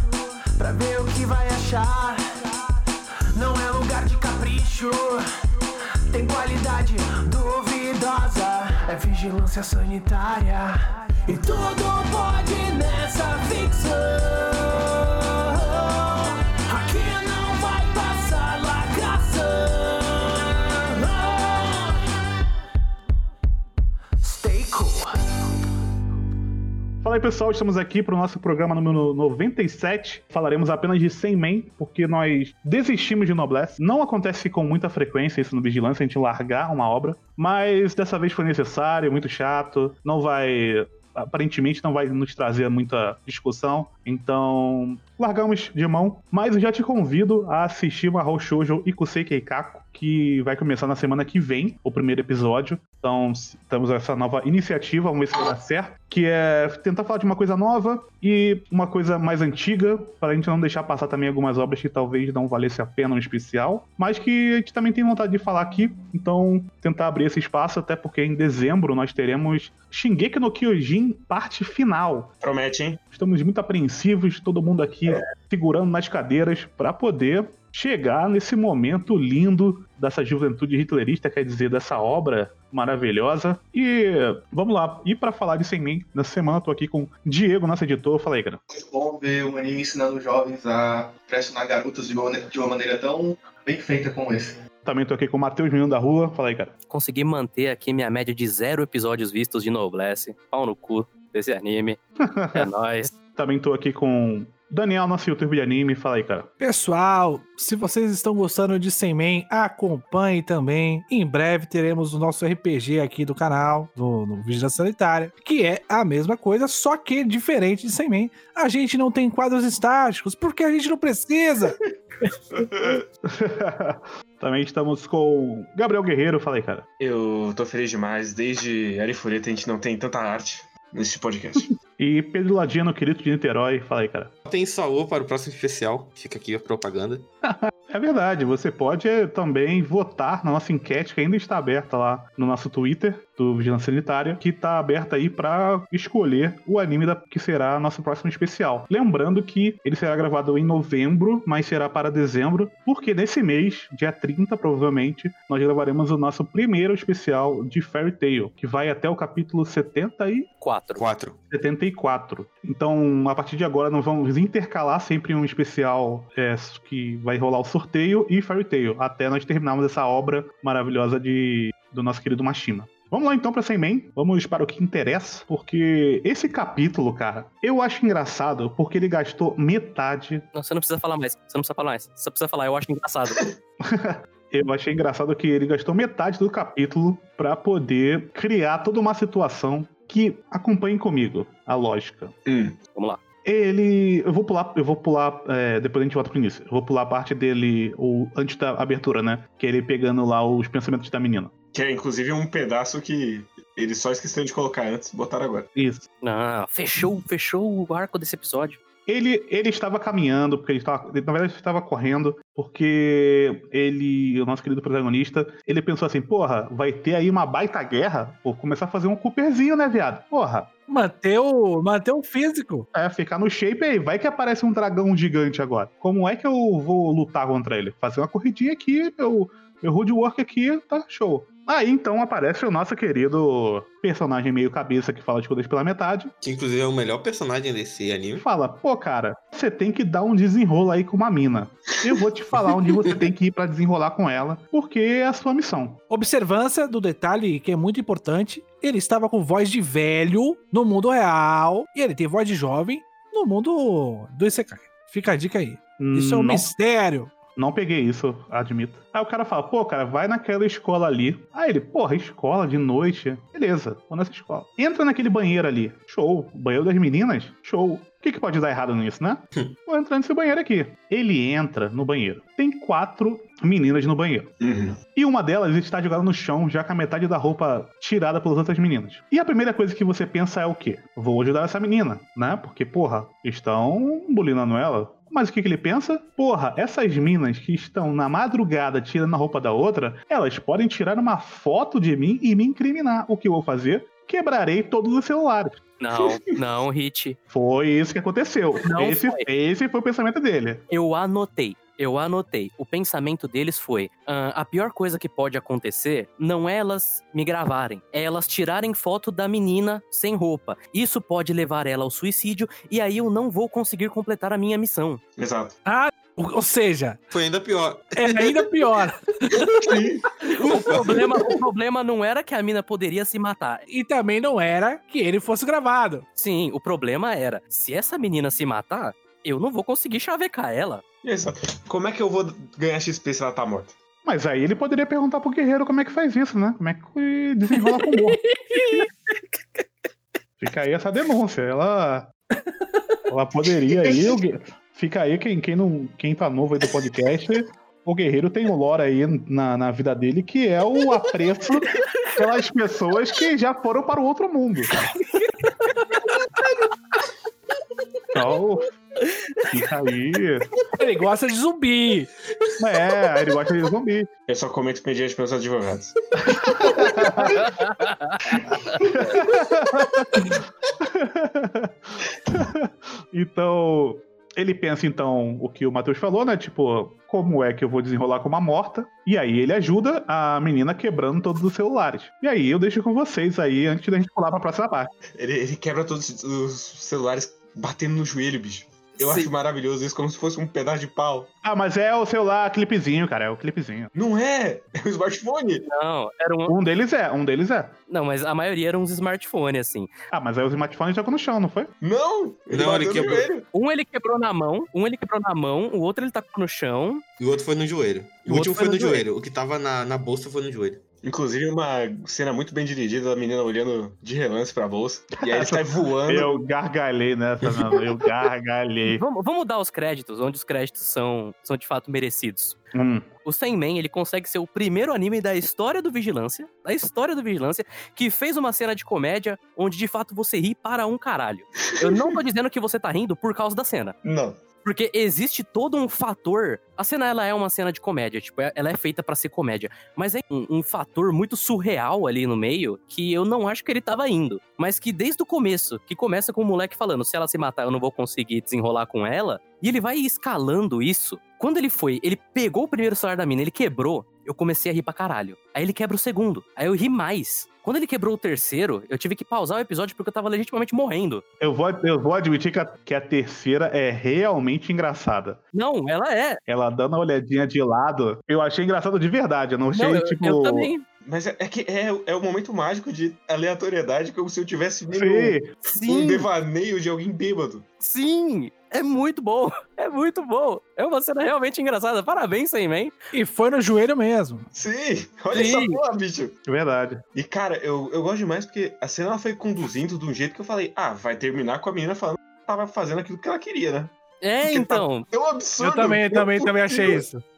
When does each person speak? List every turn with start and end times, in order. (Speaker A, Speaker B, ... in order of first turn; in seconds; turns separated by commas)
Speaker A: 0.6-2.2, Speaker A: 3.3-5.2, Speaker A: 6.1-22.0, Speaker A: 24.2-25.1, Speaker B: 27.0-72.3, Speaker C: 72.4-73.0, Speaker B: 73.1-88.6, Speaker D: 88.7-94.6, Speaker B: 94.8-96.7, Speaker E: 96.9-102.0, Speaker B: 102.2-102.7, Speaker E: 102.5-103.1, Speaker B: 103.3-106.5, Speaker F: 106.6-121.8, Speaker C: 122.5-123.0, Speaker B: 123.2-126.8, Speaker C: 127.0-131.7, Speaker B: 132.0-134.3, Speaker G: 134.4-137.3, Speaker B: 137.4-160.5, Speaker E: 160.6-161.1, Speaker G: 161.0-161.4, Speaker B: 161.5-180.4, Speaker E: 180.5-183.5, Speaker B: 183.8-192.3, Speaker C: 192.4-192.8, Speaker E: 192.9-193.2, Speaker B: 193.4-201.5, Speaker C: 201.7-205.7, Speaker B: 205.8-206.1, Speaker E: 206.2-208.8, Speaker B: 209.1-220.7, Speaker F: 220.9-222.8, Speaker B: 222.9-236.3, Speaker G: 236.4-238.4, Speaker B: 238.3-246.0, Speaker F: 246.1-257.3, Speaker B: 256.0-256.7, Speaker B: 257.6-274.5, Speaker C: 274.6-275.0, Speaker B: 275.1-295.8, Speaker E: 296.0-297.4, Speaker B: 297.5-300.8, Speaker E: 298.8-299.5, Speaker E: 300.9-315.2, Speaker C: 315.4-315.8, Speaker F: 315.9-317.2, Speaker G: 317.3-318.7, Speaker F: 318.1-320.7, Speaker G: 319.6-319.9, Speaker C: 319.8-320.2, Speaker E: 320.6-323.8, Speaker G: 320.8-321.5, Speaker F: 323.9-326.2, Speaker E: 326.4-331.0, Speaker C: 331.2-334.0, Speaker B: 334.2-338.4, Speaker B: 340.6-342.3, Speaker B: 343.3-354.9, Speaker B: 358.3-358.9, Speaker B: 359.7-360.7, Speaker F: 361.0-362.3, Speaker B: 362.8-364.3, Speaker C: 364.5-366.1, Speaker B: 366.6-367.7, Speaker E: 367.6-368.4, Speaker B: 369.0-371.9, Speaker B: 372.5-385.1, Speaker C: 385.4-391.5, Speaker E: 389.2-389.5, Speaker B: 391.6-394.1, Speaker C: 394.1-395.9, Speaker E: 395.9-396.8, Speaker B: 396.7-397.9, Speaker E: 398.1-400.1, Speaker B: 400.3-401.9, Speaker C: 402.0-403.6, Speaker G: 402.7-403.5, Speaker E: 403.7-407.2, Speaker G: 407.4-411.0, Speaker E: 408.5-409.2, Speaker C: 411.2-416.5, Speaker B: 415.4-419.2, Speaker E: 419.1-422.8, Speaker B: 422.9-423.3, Speaker E: 423.4-434.1, Speaker C: 434.2-434.6, Speaker E: 434.8-461.4, Speaker B: 461.6-465.6, Speaker E: 465.7-466.6, Speaker B: 466.7-470.9, Speaker E: 469.9-471.1, Speaker C: 471.2-477.9, Speaker B: 475.1-475.7, Speaker E: 475.8-476.5, Speaker E: 478.0-483.1, Speaker F: 483.3-484.7, Speaker C: 484.7-486.5, Speaker E: 485.5-486.0, Speaker B: 486.6-487.2, Speaker C: 487.3-494.1, Speaker E: 494.4-495.2, Speaker C: 494.6-497.2, Speaker F: 495.8-497.4